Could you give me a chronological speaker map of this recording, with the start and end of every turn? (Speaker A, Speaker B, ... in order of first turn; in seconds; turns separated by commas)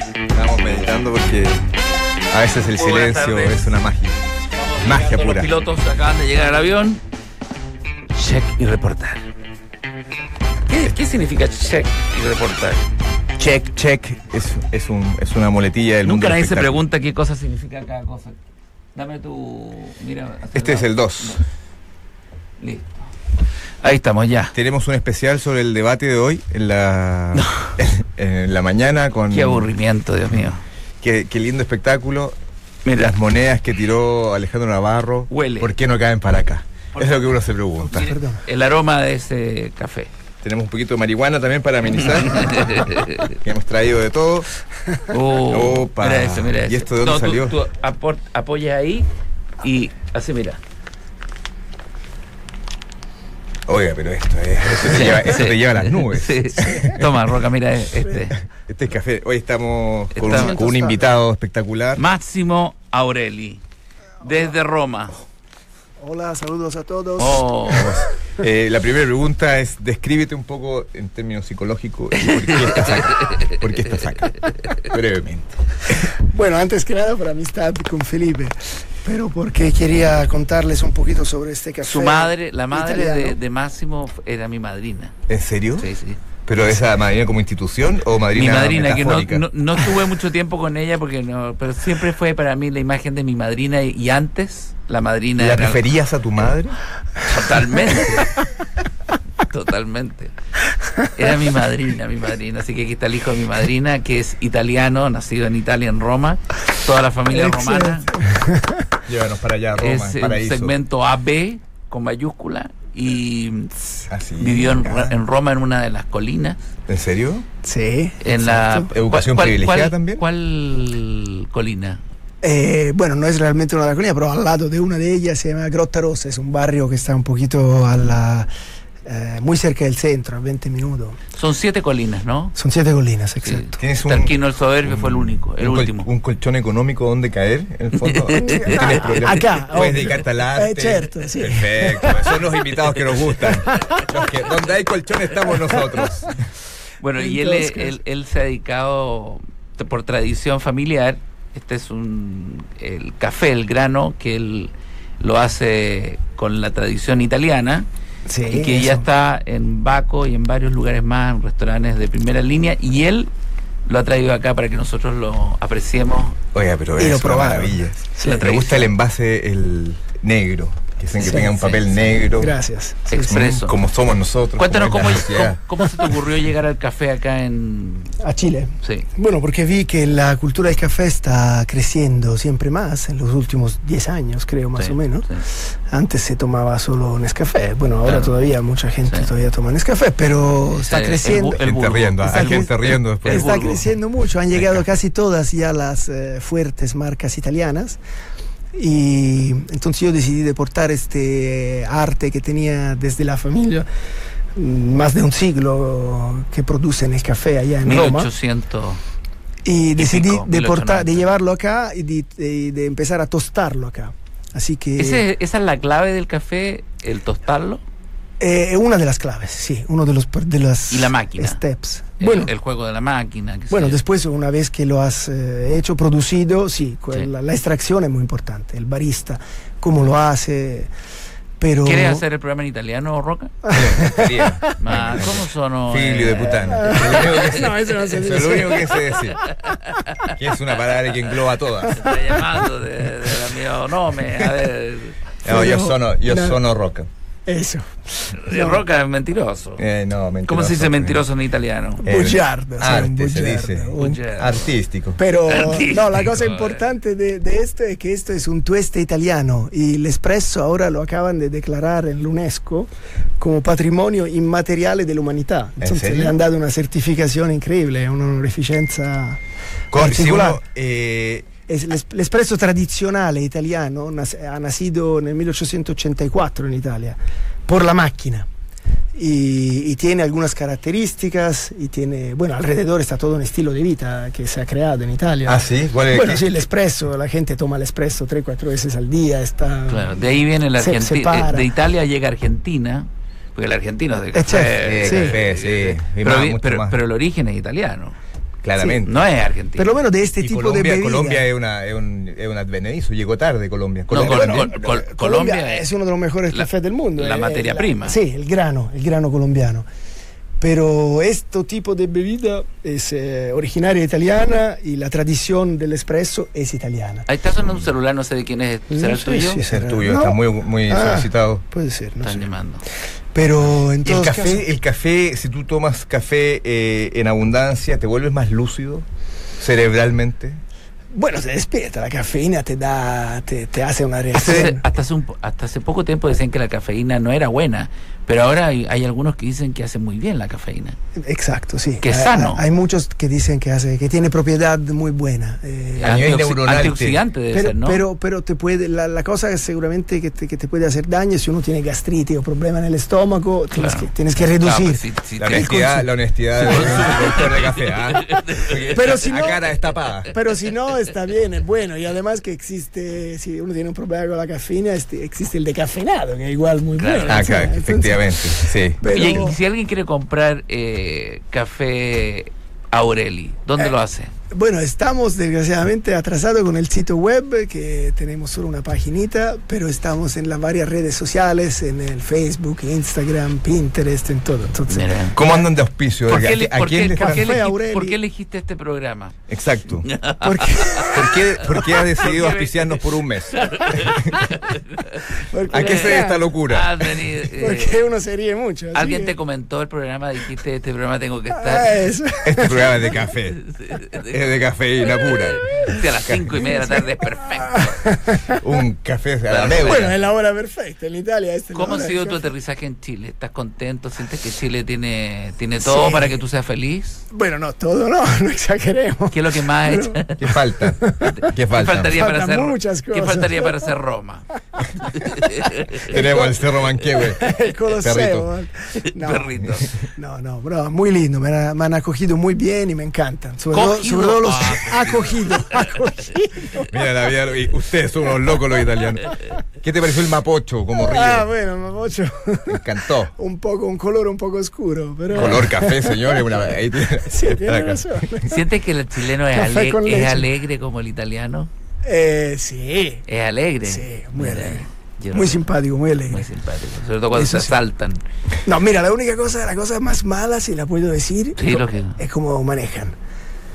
Speaker A: 0.3-1.6, Speaker A: 2.3-4.2, Speaker B: 2.8-3.7, Speaker B: 4.6-7.0, Speaker A: 4.8-5.5, Speaker B: 8.2-9.3, Speaker B: 10.7-12.8, Speaker A: 13.4-16.8, Speaker B: 16.0-18.4, Speaker B: 18.9-21.4, Speaker A: 20.6-21.4, Speaker B: 22.6-23.0, Speaker B: 23.8-24.5, Speaker A: 24.5-29.7, Speaker B: 27.4-27.7, Speaker B: 29.3-30.6, Speaker A: 31.0-32.4, Speaker B: 32.9-33.2, Speaker A: 33.0-38.1, Speaker B: 35.3-35.7, Speaker B: 37.0-37.3, Speaker C: 37.9-38.4, Speaker B: 37.9-40.1, Speaker A: 40.4-44.5, Speaker B: 42.0-43.3, Speaker B: 45.1-49.1, Speaker A: 45.5-47.5, Speaker B: 49.6-50.6, Speaker A: 53.7-57.1, Speaker B: 54.8-58.4, Speaker A: 58.5-62.0, Speaker B: 60.1-60.6, Speaker C: 60.2-61.1, Speaker B: 62.0-63.6, Speaker B: 64.2-65.2, Speaker C: 66.0-67.9, Speaker B: 67.2-68.0, Speaker A: 67.7-75.6, Speaker B: 72.2-74.9, Speaker C: 76.0-83.4, Speaker B: 81.9-85.1, Speaker A: 85.3-85.9, Speaker B: 85.8-86.2, Speaker A: 86.5-89.5, Speaker B: 88.3-95.8, Speaker A: 95.4-96.8, Speaker B: 97.2-98.4, Speaker B: 99.4-100.3, Speaker B: 101.1-108.1, Speaker C: 107.3-108.9, Speaker A: 109.1-110.7, Speaker B: 109.8-116.6, Speaker A: 114.1-115.1, Speaker A: 116.9-117.5, Speaker C: 117.6-118.9, Speaker B: 118.2-122.0, Speaker A: 118.9-120.2, Speaker C: 122.4-128.5, Speaker C: 129.1-131.2, Speaker B: 131.3-132.6, Speaker C: 132.6-133.7, Speaker B: 133.4-136.1, Speaker A: 133.8-134.3, Speaker A: 134.8-146.4, Speaker B: 138.0-139.2, Speaker C: 138.4-142.4, Speaker C: 143.7-144.1, Speaker C: 145.5-145.9, Speaker B: 147.0-157.9, Speaker C: 147.2-148.0, Speaker C: 158.3-159.1, Speaker B: 158.5-163.3, Speaker B: 163.9-166.4, Speaker A: 166.5-172.6, Speaker C: 167.0-168.4, Speaker B: 168.2-168.9, Speaker C: 171.2-171.5, Speaker B: 171.2-172.0, Speaker C: 172.3-173.3, Speaker B: 173.1-173.8, Speaker A: 173.2-175.6, Speaker B: 174.6-178.2, Speaker C: 175.8-176.2, Speaker C: 178.2-191.7, Speaker B: 178.8-179.1, Speaker B: 184.8-185.4, Speaker B: 188.1-188.3, Speaker B: 190.7-193.9, Speaker A: 191.6-193.6, Speaker C: 192.2-198.0, Speaker C: 198.7-203.9, Speaker C: 204.6-208.3, Speaker B: 207.8-209.0, Speaker C: 209.7-215.2, Speaker B: 210.0-211.3, Speaker B: 215.0-217.8, Speaker C: 218.4-222.5, Speaker B: 220.9-221.6, Speaker B: 222.2-224.0, Speaker C: 223.7-230.9, Speaker C: 231.6-232.2, Speaker B: 231.8-233.6, Speaker C: 233.7-234.8, Speaker A: 233.7-239.4, Speaker B: 234.8-238.0, Speaker C: 236.6-239.3, Speaker B: 239.4-240.3, Speaker A: 240.3-242.1, Speaker B: 241.9-245.2, Speaker C: 245.4-246.6, Speaker A: 245.4-247.1, Speaker C: 247.5-248.8, Speaker B: 248.3-249.8, Speaker A: 249.8-251.2, Speaker B: 250.5-252.1, Speaker A: 252.0-255.2, Speaker C: 252.1-254.2, Speaker B: 254.0-254.6, Speaker C: 255.2-269.4, Speaker B: 255.5-256.9, Speaker A: 265.8-266.4, Speaker A: 269.9-271.5, Speaker C: 269.9-270.6, Speaker C: 271.7-278.5, Speaker C: 279.1-291.7, Speaker A: 285.5-286.4, Speaker B: 289.9-298.2, Speaker C: 294.4-295.4, Speaker A: 294.8-297.0, Speaker A: 298.6-299.2, Speaker C: 298.8-299.0, Speaker B: 299.1-300.0, Speaker C: 299.8-301.5, Speaker A: 300.4-304.7, Speaker B: 304.1-305.9, Speaker C: 304.1-309.9, Speaker B: 306.5-308.2, Speaker C: 310.6-317.3, Speaker B: 317.3-319.6, Speaker A: 317.6-317.9, Speaker C: 318.9-322.5, Speaker A: 319.6-321.6, Speaker B: 322.2-322.8, Speaker C: 323.3-324.7, Speaker A: 324.0-329.1, Speaker A: 329.6-330.6, Speaker C: 331.1-334.8, Speaker B: 334.3-341.0, Speaker A: 334.4-334.7, Speaker C: 341.2-346.2, Speaker B: 342.0-342.6, Speaker B: 346.0-348.0, Speaker A: 346.0-347.2, Speaker C: 347.5-357.4, Speaker B: 353.7-355.7, Speaker A: 355.4-360.3, Speaker B: 356.6-359.1, Speaker C: 358.9-359.6, Speaker C: 360.3-369.6, Speaker B: 367.0-367.6, Speaker A: 367.3-369.4, Speaker B: 369.1-374.3, Speaker C: 374.5-385.6, Speaker B: 384.9-385.4, Speaker A: 385.4-387.5, Speaker B: 386.3-389.4, Speaker C: 387.1-388.2, Speaker A: 389.5-390.1, Speaker B: 390.0-398.0, Speaker C: 390.4-391.5, Speaker A: 391.1-394.4, Speaker C: 395.4-396.4, Speaker A: 395.7-397.1, Speaker C: 397.5-399.4, Speaker B: 398.9-402.0, Speaker C: 401.5-403.0, Speaker A: 402.4-403.6, Speaker B: 403.6-404.5, Speaker A: 404.3-405.6, Speaker B: 405.2-408.0, Speaker C: 406.6-408.6, Speaker A: 408.6-410.1, Speaker B: 409.5-410.1, Speaker C: 409.8-412.4, Speaker B: 411.7-417.2, Speaker C: 415.8-416.4, Speaker C: 417.3-421.5, Speaker B: 419.3-420.5, Speaker A: 420.4-422.2, Speaker B: 421.2-424.5, Speaker C: 422.1-423.9, Speaker C: 424.8-437.0, Speaker B: 425.0-426.1, Speaker A: 426.1-428.5, Speaker B: 429.0-429.9, Speaker A: 429.6-429.9, Speaker B: 433.7-436.2, Speaker A: 436.9-441.5, Speaker C: 441.0-446.6, Speaker A: 442.7-443.3, Speaker B: 445.3-445.6, Speaker A: 445.3-448.1, Speaker C: 447.2-448.7, Speaker B: 448.5-451.7, Speaker C: 449.5-450.5, Speaker C: 452.0-453.2, Speaker B: 453.3-455.6, Speaker C: 453.9-456.5, Speaker B: 456.3-458.2, Speaker C: 457.3-457.8, Speaker C: 458.6-463.1, Speaker B: 461.6-462.2